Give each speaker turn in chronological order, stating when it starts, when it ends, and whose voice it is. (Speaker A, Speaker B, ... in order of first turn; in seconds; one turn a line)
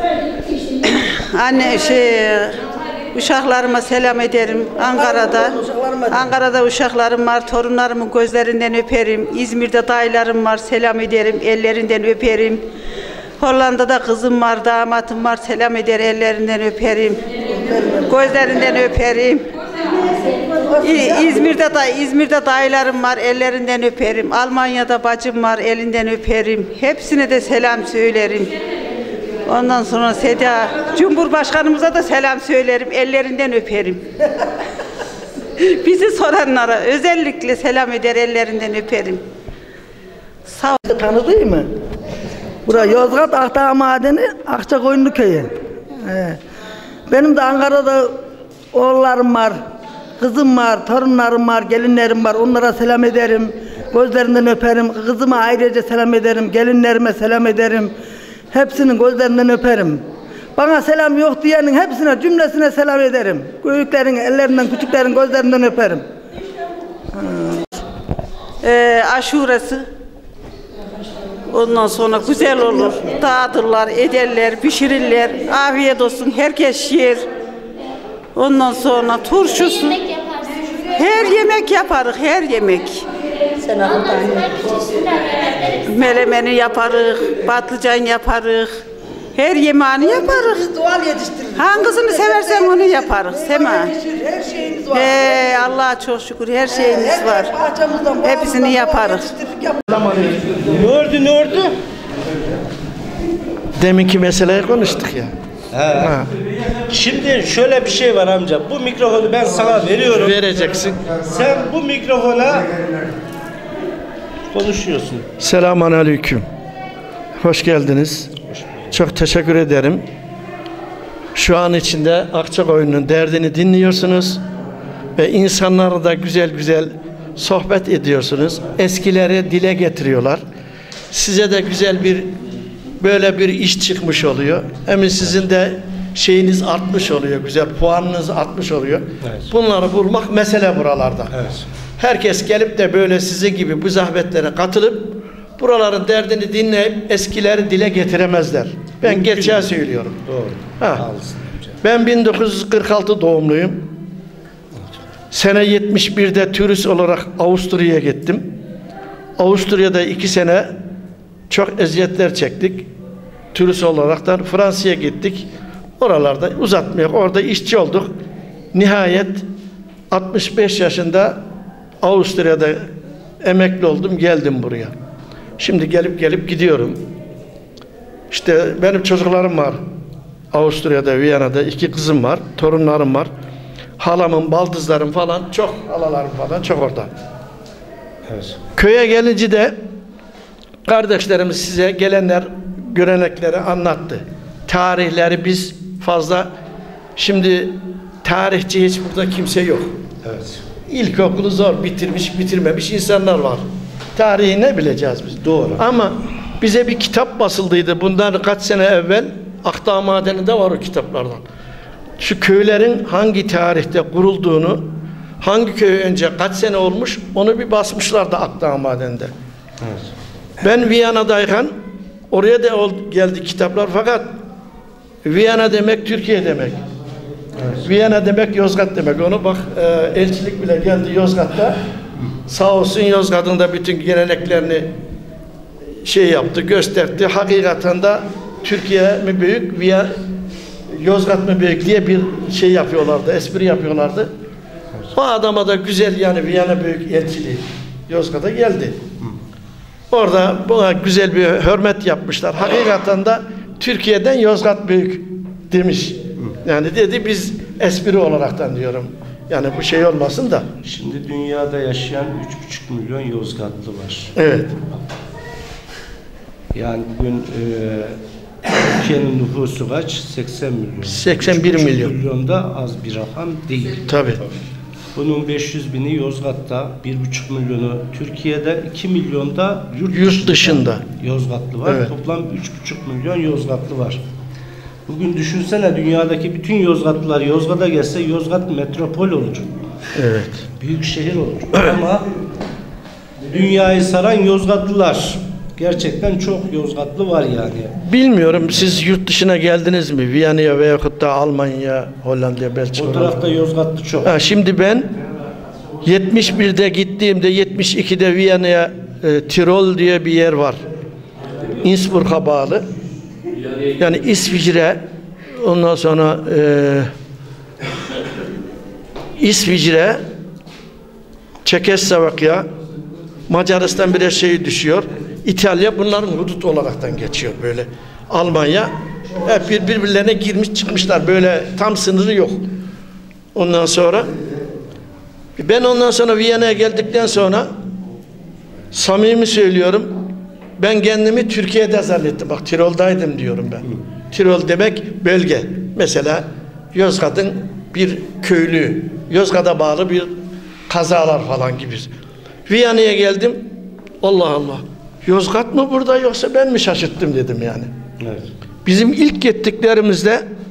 Speaker A: 0.8-2.6
Speaker A: 3.1-5.6
Speaker B: 5.0-6.2
Speaker A: 6.1-12.6
Speaker A: 13.4-17.2
Speaker B: 17.5-18.2
Speaker A: 18.1-19.5
Speaker B: 20.2-21.3
Speaker A: 20.8-28.5
Speaker A: 29.4-34.0
Speaker A: 35.6-39.2
Speaker A: 40.5-40.8
Speaker B: 40.9-41.7
Speaker B: 42.7-46.4
Speaker B: 47.1-48.1
Speaker B: 48.7-49.6
Speaker B: 50.2-57.9
Speaker B: 58.5-60.0
Speaker B: 60.6-66.0
Speaker B: 67.1-67.7
Speaker A: 68.6-69.8
Speaker A: 71.5-77.2
Speaker A: 78.3-80.1
Speaker A: 81.0-83.0
Speaker B: 83.6-84.9
Speaker A: 85.8-88.8
Speaker A: 89.3-90.6
Speaker B: 90.0-95.5
Speaker A: 91.6-93.9
Speaker A: 94.9-97.5
Speaker B: 96.7-100.0
Speaker A: 98.2-99.3
Speaker C: 100.0-100.5
Speaker D: 100.6-101.8
Speaker C: 103.8-105.3
Speaker D: 105.7-106.2
Speaker C: 106.0-106.3
Speaker D: 106.9-110.4
Speaker C: 110.2-111.0
Speaker D: 111.2-112.8
Speaker D: 114.5-115.3
Speaker C: 115.4-116.4
Speaker C: 117.4-118.4
Speaker D: 118.5-118.9
Speaker C: 118.9-120.0
Speaker C: 121.3-124.4
Speaker C: 125.2-130.4
Speaker C: 131.1-132.3
Speaker C: 133.0-141.3
Speaker D: 139.2-139.5
Speaker D: 141.3-141.7
Speaker C: 142.0-150.2
Speaker D: 149.0-149.7
Speaker D: 150.2-151.8
Speaker C: 150.8-151.1
Speaker C: 151.8-153.9
Speaker C: 155.3-158.6
Speaker C: 159.4-160.7
Speaker C: 161.5-162.9
Speaker C: 163.5-165.5
Speaker C: 166.0-168.1
Speaker C: 168.7-169.4
Speaker C: 170.1-171.4
Speaker C: 172.0-172.9
Speaker C: 173.4-174.9
Speaker C: 175.6-177.0
Speaker C: 178.3-179.8
Speaker C: 180.5-183.3
Speaker C: 184.0-187.1
Speaker D: 188.3-188.6
Speaker C: 188.8-189.8
Speaker C: 190.9-196.5
Speaker C: 197.2-199.9
Speaker D: 200.2-200.6
Speaker C: 200.9-203.6
Speaker C: 204.2-211.4
Speaker D: 205.4-205.8
Speaker C: 212.2-219.3
Speaker C: 220.6-221.7
Speaker C: 222.3-224.3
Speaker C: 225.2-226.8
Speaker D: 227.6-227.9
Speaker C: 227.8-231.8
Speaker C: 232.5-234.9
Speaker C: 236.0-240.1
Speaker C: 240.9-244.3
Speaker C: 245.1-249.0
Speaker C: 250.1-260.7
Speaker D: 260.8-264.3
Speaker C: 264.4-264.8
Speaker D: 266.7-274.0
Speaker C: 271.1-272.1
Speaker C: 274.0-274.4
Speaker D: 275.1-284.2
Speaker C: 280.1-281.1
Speaker D: 285.1-289.7
Speaker C: 290.1-290.7
Speaker D: 290.8-292.3
Speaker D: 293.5-297.9
Speaker C: 298.0-303.4
Speaker D: 303.0-304.3
Speaker C: 304.2-305.1
Speaker C: 306.0-310.8
Speaker C: 311.8-312.9
Speaker C: 314.0-315.0
Speaker C: 315.6-317.1
Speaker C: 319.4-320.2
Speaker C: 321.6-322.6
Speaker C: 323.5-332.6
Speaker C: 333.6-334.3
Speaker C: 335.6-337.7
Speaker C: 338.9-340.3
Speaker C: 340.8-350.3
Speaker C: 350.9-352.1
Speaker C: 352.7-357.9
Speaker D: 358.2-358.5
Speaker C: 358.9-360.4